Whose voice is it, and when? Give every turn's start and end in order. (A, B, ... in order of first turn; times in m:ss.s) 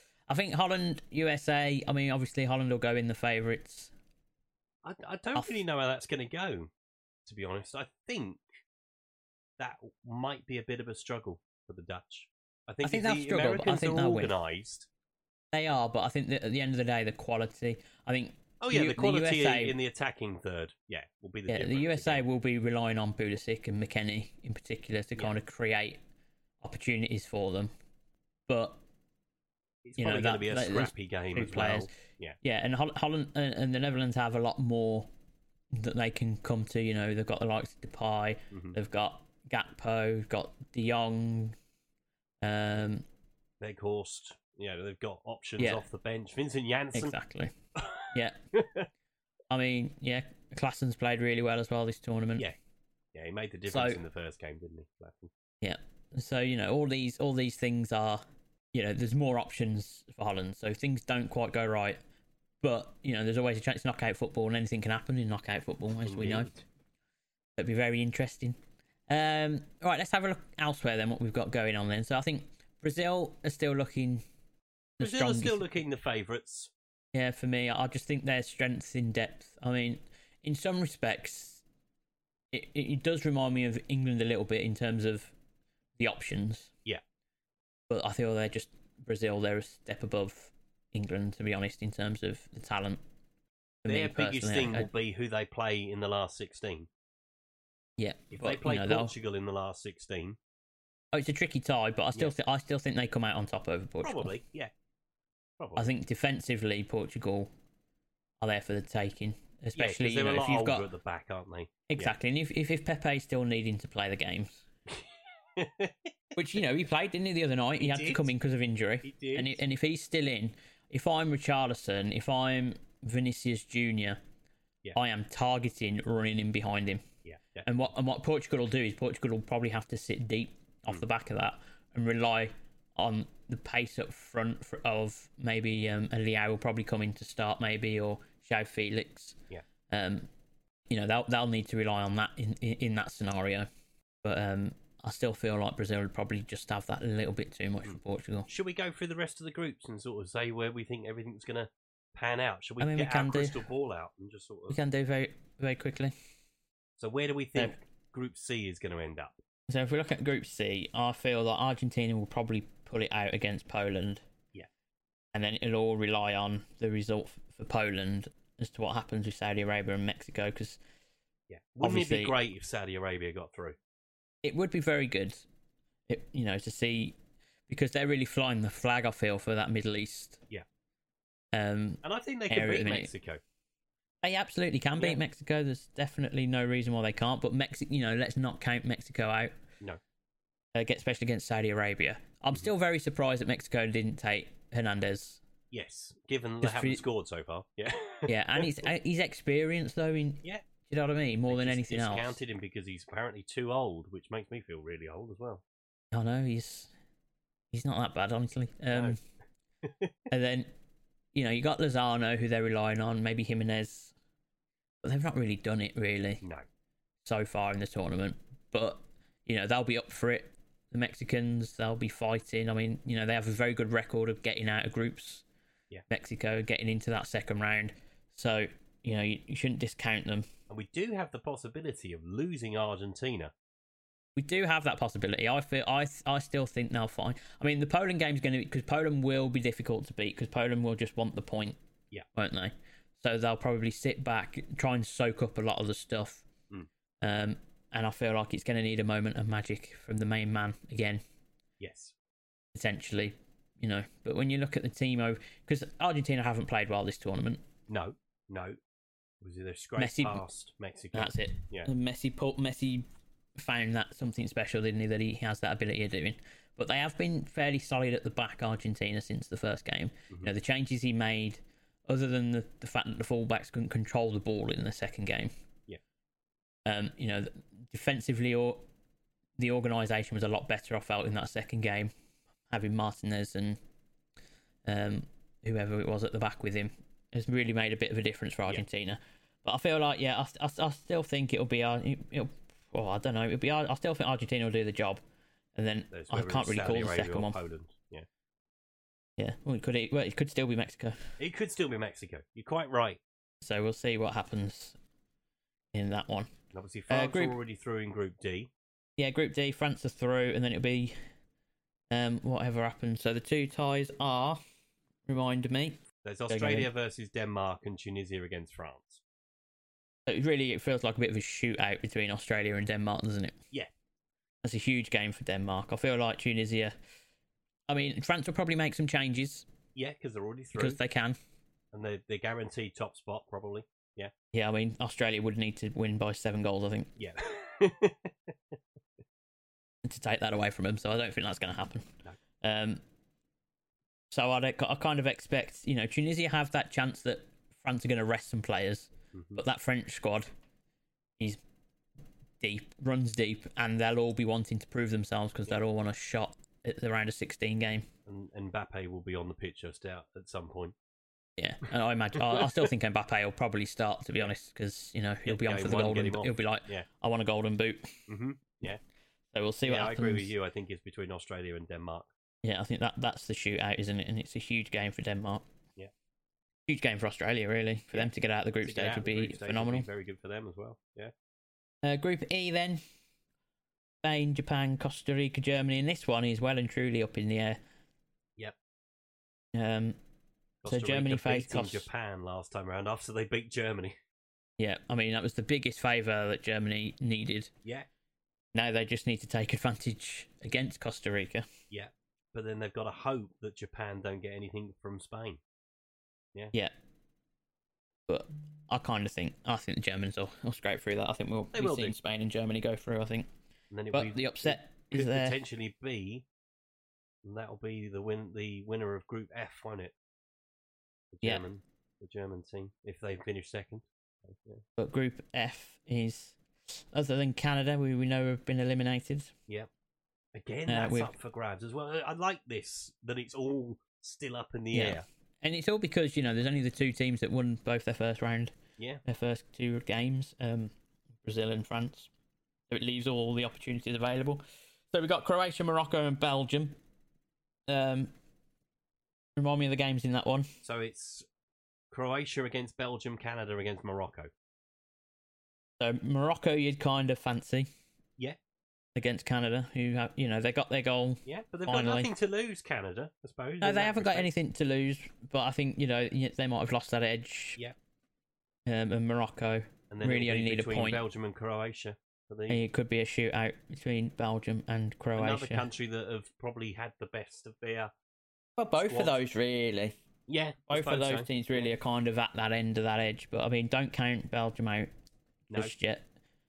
0:00.3-0:03.9 A
0:04.8-0:06.7 B
0:07.3-0:08.4 B
0:09.6-0:14.9 B
0:12.8-0:14.3 A
0:15.5-0:19.8 A
0:18.6-0:22.3 B
0:21.5-0:26.0 A
0:26.6-0:27.7 A
0:28.5-0:28.8 A
0:29.8-0:32.4 B
0:30.0-0:35.1 A
0:35.7-0:41.6 A
0:38.5-0:38.8 B
0:42.4-0:43.0 A
0:43.6-0:47.2 B
0:46.9-0:47.5 A
0:47.8-0:48.9 B
0:48.1-0:48.4 A
0:49.5-0:52.5 A
0:53.1-0:55.3 B
0:53.7-0:54.0 A
0:55.6-0:58.2 A
0:58.7-1:02.0 A
1:02.6-1:06.5 A
1:06.1-1:06.6 B
1:07.6-1:08.6 A
1:09.1-1:14.2 A
1:15.0-1:15.8 A
1:15.0-1:16.7 B
1:17.1-1:21.6 A
1:22.5-1:25.3 A
1:26.0-1:26.7 A
1:27.9-1:33.0 A
1:33.8-1:34.9 A
1:33.9-1:36.9 B
1:38.0-1:39.1 A
1:38.3-1:40.4 B
1:41.1-1:44.3 A
1:44.0-1:44.7 B
1:45.6-1:45.9 B
1:45.8-1:47.5 A
1:48.4-1:50.9 A
1:49.8-1:52.1 B
1:51.9-1:54.6 A
1:54.9-1:56.1 B
1:56.4-2:04.2 A
1:57.8-1:58.3 B
1:59.0-1:59.6 B
2:05.0-2:07.0 A
2:07.2-2:07.9 B
2:07.6-2:19.4 A
2:19.9-2:20.3 A
2:20.9-2:23.7 A
2:24.2-2:28.5 A
2:27.8-2:34.8 B
2:32.8-2:33.6 A
2:34.7-2:36.1 A
2:37.0-2:39.4 B
2:39.7-2:44.2 A
2:45.3-2:50.8 A
2:51.5-2:53.8 B
2:51.8-2:52.4 A
2:54.4-2:55.5 A
2:56.1-2:57.2 A
2:57.7-3:00.4 A
3:01.5-3:03.1 A
3:02.0-3:03.4 B
3:04.2-3:09.6 A
3:10.8-3:15.4 A
3:15.7-3:18.9 B
3:16.6-3:17.0 A
3:18.3-3:22.4 A
3:21.5-3:25.6 B
3:26.1-3:26.9 A
3:27.7-3:29.2 A
3:28.9-3:29.2 B
3:29.8-3:30.1 B
3:30.3-3:30.7 A
3:31.3-3:34.2 A
3:35.0-3:36.4 A
3:37.2-3:45.4 A
3:46.1-3:50.5 A
3:50.7-3:53.5 B
3:54.4-4:01.8 A
4:02.3-4:06.5 A
4:07.2-4:11.2 A
4:11.8-4:12.2 B
4:12.7-4:17.6 A
4:17.9-4:18.8 B
4:19.4-4:21.9 B
4:20.0-4:20.4 A
4:21.1-4:35.5 A
4:36.9-4:38.8 A
4:39.6-4:42.1 A
4:42.7-4:43.8 A
4:44.8-4:55.2 A
4:55.8-4:57.6 A
4:56.1-4:58.3 B
4:59.4-5:01.3 A
5:01.4-5:03.2 B
5:03.6-5:05.0 A
5:05.9-5:06.5 A
5:06.7-5:08.7 B
5:07.1-5:07.6 A
5:09.2-5:11.2 A
5:12.1-5:14.6 A
5:15.3-5:16.9 A
5:16.2-5:19.2 B
5:20.3-5:23.6 A
5:24.6-5:27.0 A
5:27.9-5:29.7 A
5:30.0-5:31.0 B
5:30.8-5:31.4 A
5:31.9-5:34.3 B
5:34.5-5:37.1 A
5:37.2-5:38.8 B
5:40.0-5:43.0 A
5:44.3-5:50.5 A
5:49.3-5:49.6 B
5:52.6-5:58.1 A
5:58.3-6:01.0 B
6:01.6-6:08.2 A
6:02.4-6:02.9 B
6:05.5-6:07.1 B
6:08.3-6:09.0 B
6:09.5-6:10.5 A
6:09.8-6:12.3 B
6:12.6-6:15.6 A
6:16.9-6:20.1 A
6:18.8-6:21.3 B
6:22.0-6:23.0 A
6:24.2-6:27.8 A
6:29.7-6:30.2 A
6:30.8-6:34.2 B
6:30.9-6:32.1 A
6:34.8-6:37.7 A
6:38.7-6:41.7 A
6:41.9-6:45.6 B
6:48.3-6:53.5 A
6:51.7-6:52.2 B
6:53.9-6:56.5 B
6:54.1-6:55.6 A
6:57.4-7:00.1 B
7:01.3-7:04.8 B
7:05.0-7:09.5 A
7:10.6-7:15.2 B
7:10.9-7:11.3 A
7:14.9-7:22.3 A
7:22.9-7:27.0 A
7:27.9-7:28.3 A
7:29.6-7:30.7 A
7:30.8-7:31.5 B
7:32.1-7:34.5 B
7:36.0-7:37.9 A
7:39.2-7:42.3 A
7:41.5-7:44.5 B
7:43.8-7:47.8 A
7:48.9-7:51.2 A
7:50.1-7:52.8 B
7:52.7-7:55.9 A
7:55.4-7:58.1 B
7:58.8-8:00.2 A
7:59.1-7:59.4 B
8:00.5-8:01.9 B
8:00.9-8:05.1 A
8:05.7-8:06.2 A